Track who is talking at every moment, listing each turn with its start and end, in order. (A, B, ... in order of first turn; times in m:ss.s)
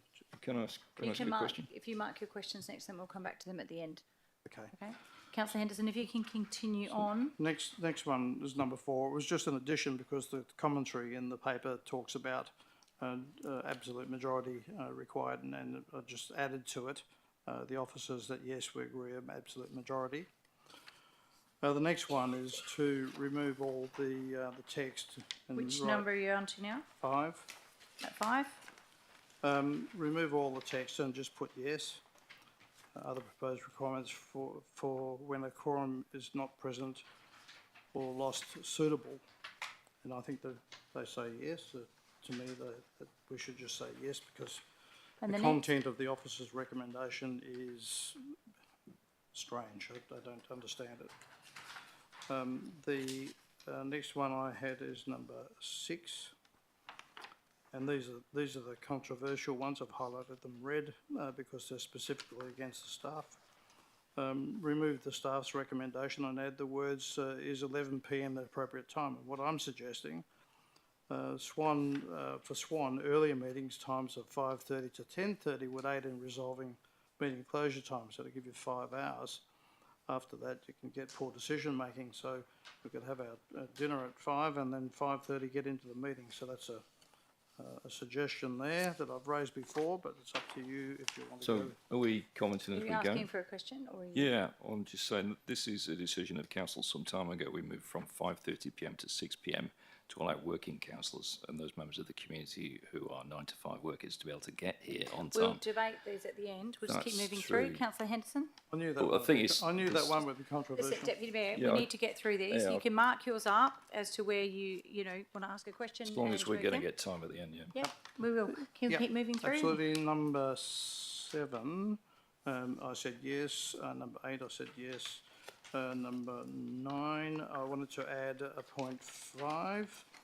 0:00.3-0:01.7 A
0:01.0-0:04.0 B
0:04.4-0:04.7 C
0:04.7-0:07.3 B
0:06.9-0:20.3 C
0:21.6-0:26.1 C
0:25.5-0:26.8 B
0:27.0-0:27.5 C
0:28.0-0:28.6 B
0:29.4-0:32.0 C
0:32.9-0:37.0 C
0:37.9-0:39.2 C
0:40.0-0:44.6 C
0:45.2-0:45.6 B
0:45.2-0:48.3 C
0:49.3-0:51.1 C
0:52.3-0:56.3 C
0:57.7-1:03.4 C
1:04.2-1:10.2 C
1:11.1-1:19.4 C
1:20.1-1:26.8 C
1:27.6-1:31.8 C
1:31.4-1:33.3 A
1:32.7-1:34.3 B
1:34.1-1:45.6 A
1:45.3-1:48.5 B
1:46.9-1:47.8 A
1:48.7-1:51.1 C
1:49.0-1:50.2 A
1:50.7-1:56.9 B
1:51.5-1:51.9 A
1:52.5-1:52.8 A
1:56.0-1:57.8 A
1:57.7-1:59.8 B
1:58.9-2:10.1 C